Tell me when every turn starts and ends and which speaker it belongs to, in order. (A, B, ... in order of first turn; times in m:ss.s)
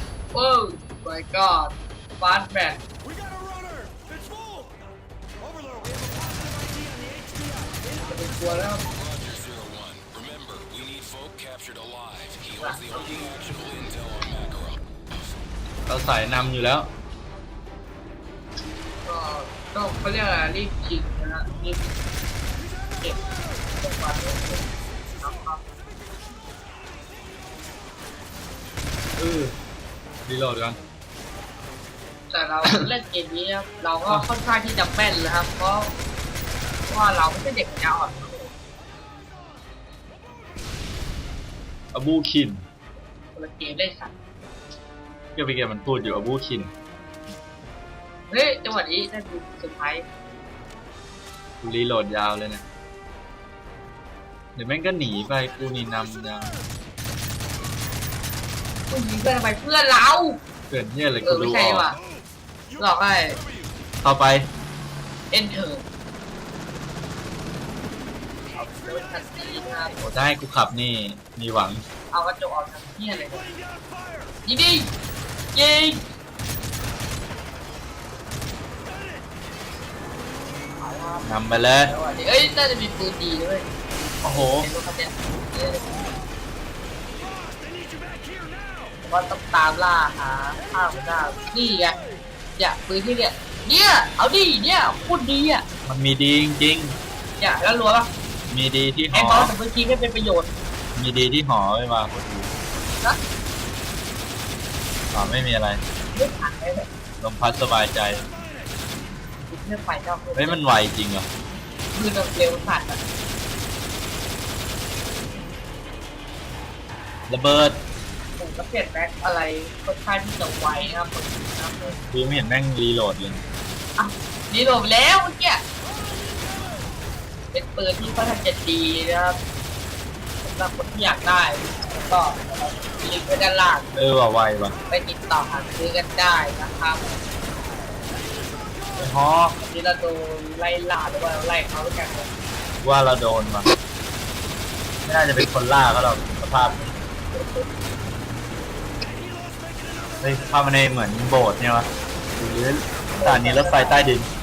0:00.3-0:02.8 A
0:08.0-0:08.8 A
0:08.9-0:12.7 B
0:12.6-0:13.7 A
0:13.3-0:14.8 B
0:15.9-0:16.9 C
0:19.0-0:21.9 A
0:23.7-0:25.6 A
0:29.2-0:29.6 C
0:30.2-0:30.8 C
0:32.3-0:35.9 A
0:36.9-0:38.5 A
0:41.9-0:42.6 C
0:43.3-0:44.1 A
0:45.4-0:46.7 C
0:48.3-0:50.0 A
0:51.6-0:52.6 C
0:54.6-0:56.6 C
0:58.9-1:00.4 A
1:00.7-1:01.9 C
1:01.2-1:02.0 A
1:02.8-1:03.4 A
1:04.0-1:04.5 C
1:05.3-1:05.8 A
1:08.5-1:09.9 A
1:10.0-1:11.8 C
1:12.1-1:13.5 A
1:14.4-1:14.9 A
1:15.5-1:16.0 A
1:20.8-1:21.2 A
1:21.2-1:21.9 C
1:21.8-1:23.7 A
1:24.2-1:24.7 C
1:24.3-1:26.0 A
1:29.0-1:32.0 A
1:32.6-1:35.6 A
1:35.8-1:37.0 C
1:37.4-1:38.1 A
1:38.5-1:39.5 C
1:39.1-1:40.5 A
1:41.0-1:42.5 C
1:45.1-1:45.8 C
1:46.1-1:46.9 A
1:47.2-1:48.2 C
1:49.4-1:50.6 A
1:50.4-1:51.3 C
1:51.9-1:53.0 A
1:57.3-1:57.8 C
1:58.4-2:02.0 A
2:02.1-2:03.4 C
2:04.0-2:05.6 A
2:07.5-2:09.4 A
2:10.4-2:13.9 A
2:13.9-2:14.8 C
2:14.9-2:17.2 A
2:19.0-2:19.6 C
2:19.6-2:22.3 A
2:22.8-2:23.7 C
2:25.0-2:26.9 C
2:27.3-2:27.6 A
2:30.2-2:34.3 C
2:33.1-2:34.1 A